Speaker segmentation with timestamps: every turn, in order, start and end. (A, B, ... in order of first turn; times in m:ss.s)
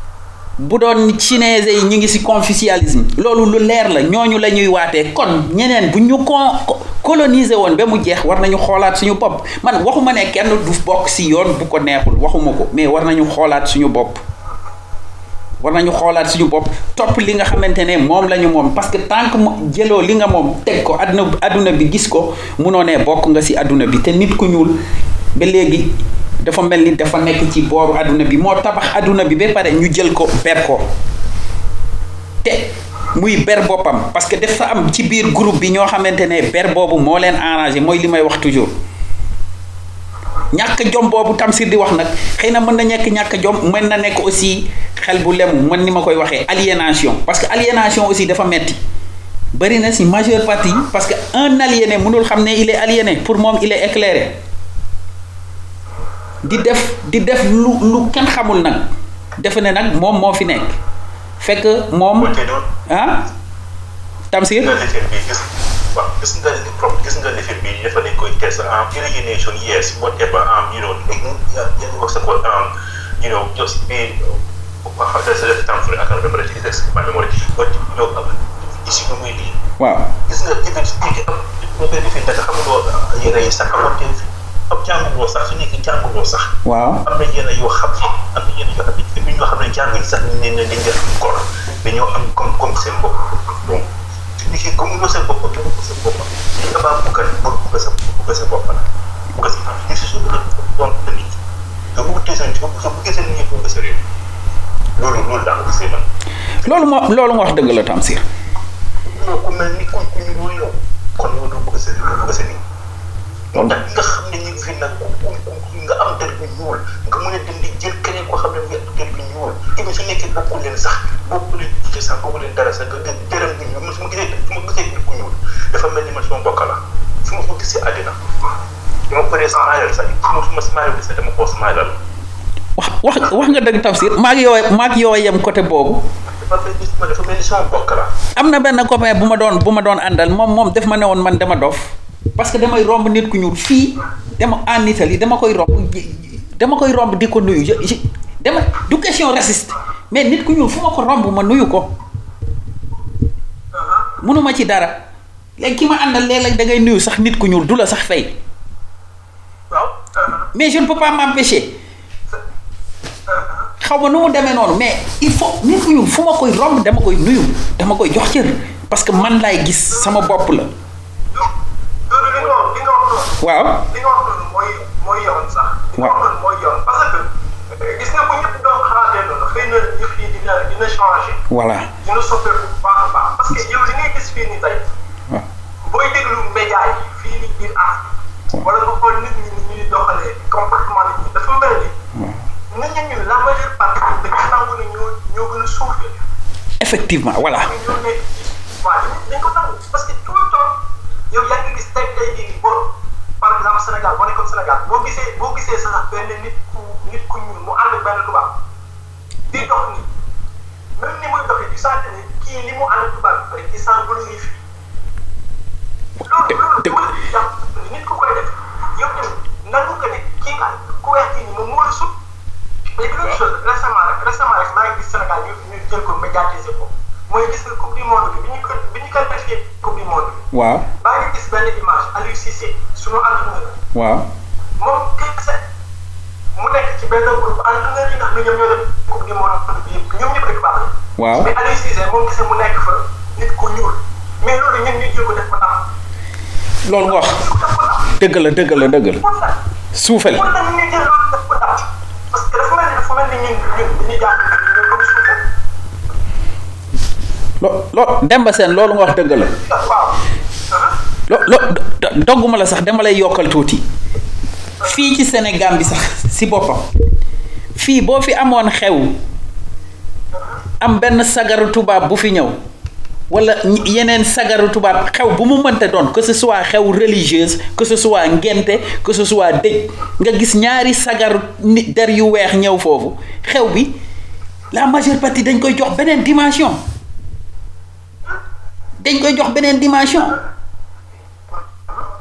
0:00.6-0:14.2 A
0:15.6-0:24.7 A
0:25.3-0:25.9 A
0:26.4-0:30.8 A
0:32.4-0:38.7 A
0:40.5-0:48.8 A
0:49.5-0:54.3 A
0:56.4-0:58.9 A
0:59.4-1:00.8 A
1:01.4-1:02.3 A
1:02.2-1:02.6 B
1:02.9-1:03.2 A
1:04.3-1:04.7 A
1:04.6-1:19.6 B
1:19.8-1:20.1 A
1:20.3-1:26.5 B
1:26.6-1:27.0 A
1:27.0-1:38.8 B
1:39.4-1:41.4 B
1:41.9-1:44.0 B
1:45.0-1:46.0 B
1:46.6-1:48.2 A
1:49.0-1:52.6 B
1:53.5-2:08.2 B
2:09.1-2:12.0 B
2:09.5-2:09.8 C
2:12.8-2:16.0 A
2:16.3-2:18.1 B
2:18.4-2:31.9 A
2:33.7-2:34.1 C
2:34.2-2:35.0 A
2:35.6-2:38.3 A
2:39.7-2:40.5 C
2:40.5-2:41.7 A
2:43.3-2:43.6 C
2:43.8-2:50.7 A
2:49.9-2:50.3 C
2:52.1-2:53.4 C
2:53.4-2:53.8 A
2:53.9-2:57.3 C
2:57.8-3:01.4 C
3:01.5-3:01.9 A
3:02.0-3:04.9 C
3:05.8-3:11.9 C
3:12.1-3:12.4 A
3:12.7-3:16.2 C
3:16.8-3:17.7 A
3:17.4-3:20.8 C
3:21.3-3:28.5 C
3:29.5-3:30.1 C
3:31.0-3:34.6 C
3:36.2-3:42.1 C
3:36.4-3:37.1 A
3:42.9-3:50.4 C
3:50.5-3:50.9 A
3:51.0-3:53.8 C
3:53.9-3:54.3 A
3:54.8-3:55.6 C
3:56.6-4:05.8 C
4:01.2-4:01.5 A
4:06.8-4:07.4 A
4:07.0-4:08.1 C
4:08.2-4:09.2 A
4:09.2-4:09.5 C
4:09.9-4:10.5 A
4:10.3-4:15.4 C
4:17.6-4:19.5 A
4:19.3-4:20.1 C
4:21.3-4:23.8 A
4:24.8-4:26.9 A
4:27.8-4:29.1 A
4:30.8-4:32.6 A
4:33.3-4:43.9 A
4:44.7-4:46.8 A
4:49.0-4:50.4 A